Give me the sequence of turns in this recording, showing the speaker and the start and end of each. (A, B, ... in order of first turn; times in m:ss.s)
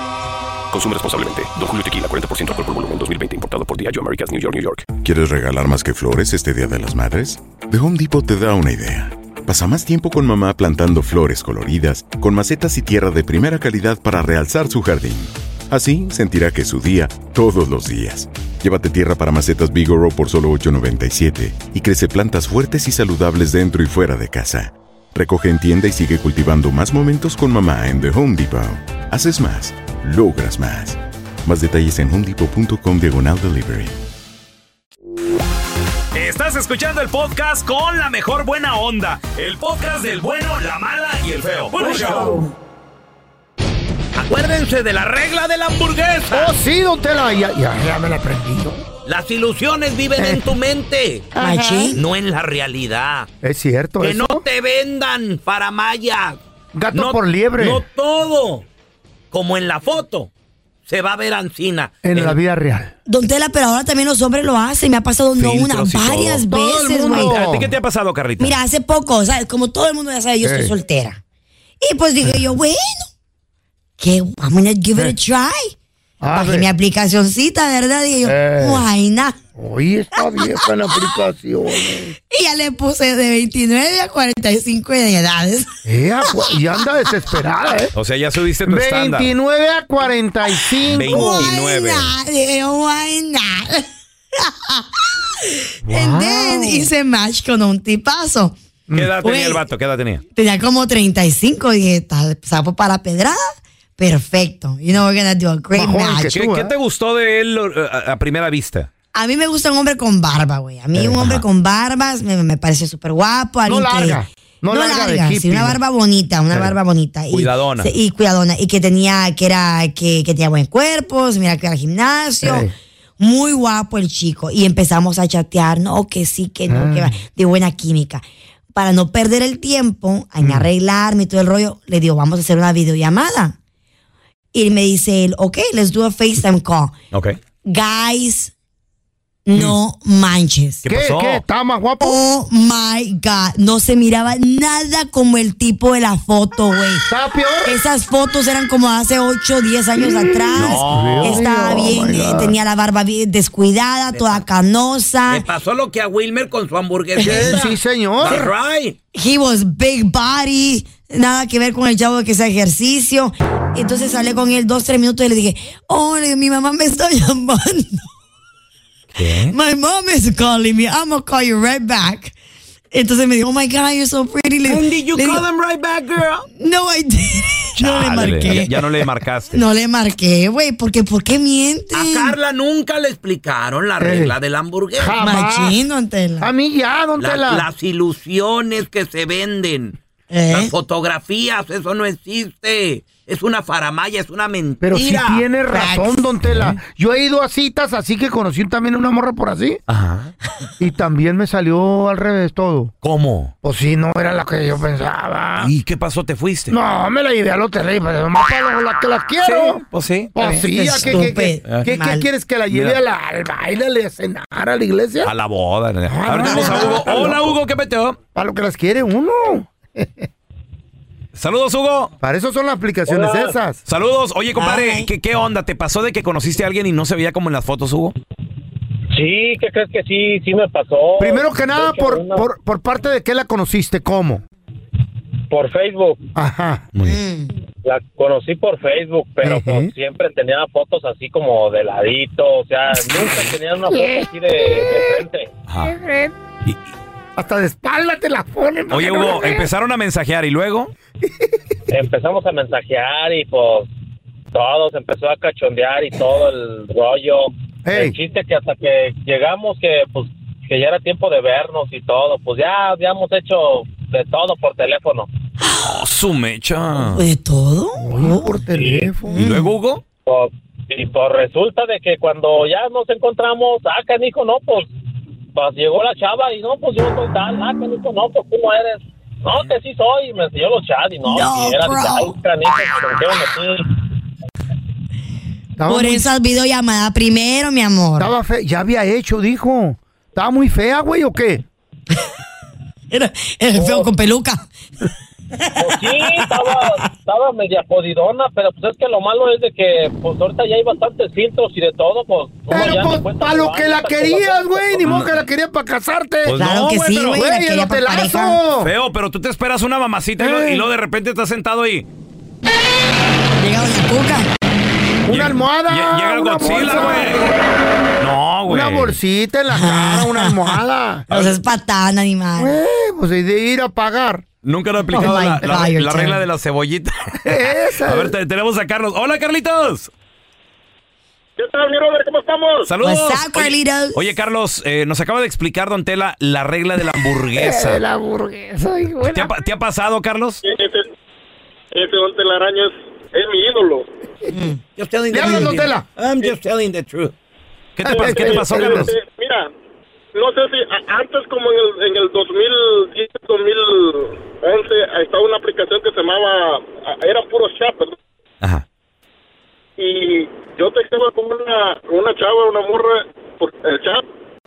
0:00.7-0:04.9 A
0:05.0-0:34.0 B
0:36.1-0:42.4 C
0:41.8-0:42.4 D
0:44.1-0:46.5 E
0:46.3-0:48.8 D
0:49.0-0:51.3 E
0:50.2-0:50.4 D
0:51.3-0:52.0 D
0:51.4-0:52.0 F
0:51.9-0:53.3 E
0:53.4-0:54.4 D
0:54.0-0:56.4 E
0:56.7-0:57.8 D
0:56.9-0:58.6 E
0:59.3-1:00.3 E
1:00.8-1:02.4 E
1:02.0-1:02.9 D
1:03.1-1:07.4 F
1:05.4-1:06.4 C
1:06.5-1:07.7 D
1:07.0-1:08.6 C
1:08.4-1:11.2 F
1:10.4-1:10.7 D
1:11.8-1:13.1 F
1:14.0-1:15.8 F
1:16.2-1:16.7 D
1:16.3-1:19.4 F
1:18.2-1:18.8 D
1:19.6-1:22.2 D
1:22.3-1:25.7 F
1:25.8-1:27.9 D
1:27.9-1:29.3 C
1:28.6-1:31.5 D
1:30.9-1:32.1 C
1:30.9-1:33.8 F
1:34.4-1:34.9 F
1:35.5-1:38.6 F
1:35.8-1:36.9 D
1:38.9-1:40.2 C
1:39.2-1:39.6 F
1:40.3-1:46.3 F
1:45.7-1:46.7 D
1:46.3-1:48.9 C
1:49.1-1:54.2 F
1:50.9-1:51.4 D
1:53.6-1:55.8 D
1:54.7-2:02.7 F
1:57.3-1:57.9 C
2:02.4-2:02.7 D
2:03.2-2:08.2 F
2:06.7-2:07.1 D
2:08.7-2:13.5 F
2:10.4-2:10.7 D
2:14.5-2:16.9 F
2:17.6-2:18.5 F
2:19.5-2:20.8 F
2:20.8-2:21.4 C
2:20.8-2:22.2 D
2:22.0-2:27.1 F
2:27.1-2:27.8 D
2:27.6-2:35.4 F
2:30.0-2:32.6 D
2:30.6-2:31.4 E
2:34.1-2:34.4 E
2:35.3-2:39.0 E
2:37.2-2:38.5 D
2:39.1-2:48.0 F
2:49.2-2:49.5 C
2:49.5-2:52.3 F
2:52.9-2:55.4 F
2:54.6-2:56.5 E
2:56.5-2:58.8 F
2:57.8-2:59.6 C
2:59.5-3:02.3 F
3:01.9-3:05.2 E
3:04.0-3:04.3 D
3:04.9-3:05.8 D
3:05.2-3:06.5 F
3:06.4-3:07.6 D
3:07.2-3:10.0 E
3:10.3-3:10.7 F
3:10.5-3:15.4 E
3:14.8-3:19.8 D
3:15.7-3:16.3 F
3:19.9-3:20.3 C
3:20.8-3:22.9 D
3:23.0-3:23.5 E
3:23.6-3:25.7 D
3:25.6-3:26.7 C
3:26.7-3:35.3 D
3:29.4-3:30.6 C
3:30.7-3:32.2 F
3:32.7-3:33.0 C
3:35.2-3:38.2 C
3:36.1-3:37.6 D
3:38.3-3:40.3 D
3:41.3-3:42.1 C
3:42.2-3:43.8 D
3:43.0-3:43.6 G
3:43.8-3:48.1 C
3:44.6-3:45.1 F
3:49.1-3:52.4 G
3:51.2-3:54.4 D
3:55.5-3:56.2 G
3:56.4-3:56.8 D
3:57.0-3:57.5 F
3:57.8-4:05.5 G
3:59.4-3:59.9 D
4:03.1-4:03.4 D
4:03.9-4:05.2 D
4:05.7-4:05.9 C
4:05.8-4:06.3 D
4:07.4-4:09.7 D
4:08.9-4:10.9 C
4:11.9-4:13.9 G
4:14.5-4:25.3 G
4:17.8-4:18.2 D
4:25.6-4:25.9 F
4:25.8-4:27.2 C
4:27.1-4:28.6 F
4:28.0-4:29.4 D
4:28.7-4:29.1 G
4:29.3-4:29.7 F
4:29.4-4:30.0 C
4:30.2-4:34.9 G
4:35.5-4:43.9 G
4:41.3-4:42.3 F
4:45.8-4:46.2 D
4:45.9-4:48.3 F
4:48.2-4:51.6 D
4:53.1-4:54.6 F
4:53.8-4:54.1 G
4:55.8-5:05.2 G
5:02.7-5:06.6 D
5:05.0-5:05.4 C
5:06.4-5:07.4 C
5:06.5-5:08.6 F
5:07.3-5:08.9 D
5:08.8-5:12.1 C
5:10.4-5:10.9 D
5:13.6-5:14.5 F
5:15.3-5:17.5 D
5:15.3-5:17.5 C
5:18.2-5:19.2 C
5:18.7-5:21.3 D
5:19.7-5:22.7 F
5:22.6-5:24.5 D
5:24.6-5:30.1 C
5:25.1-5:26.4 F
5:25.1-5:25.8 D
5:27.4-5:28.3 D
5:31.6-5:32.9 H
5:32.9-5:38.0 C
5:33.0-5:34.2 F
5:37.5-5:39.6 D
5:39.2-5:40.6 C
5:40.6-5:41.1 H
5:41.9-5:44.1 H
5:44.5-5:44.8 F
5:45.0-5:47.3 E
5:45.3-5:46.0 D
5:48.0-5:49.1 C
5:48.0-5:49.1 D
5:48.1-5:49.7 H
5:50.3-5:58.2 H
6:00.0-6:04.2 H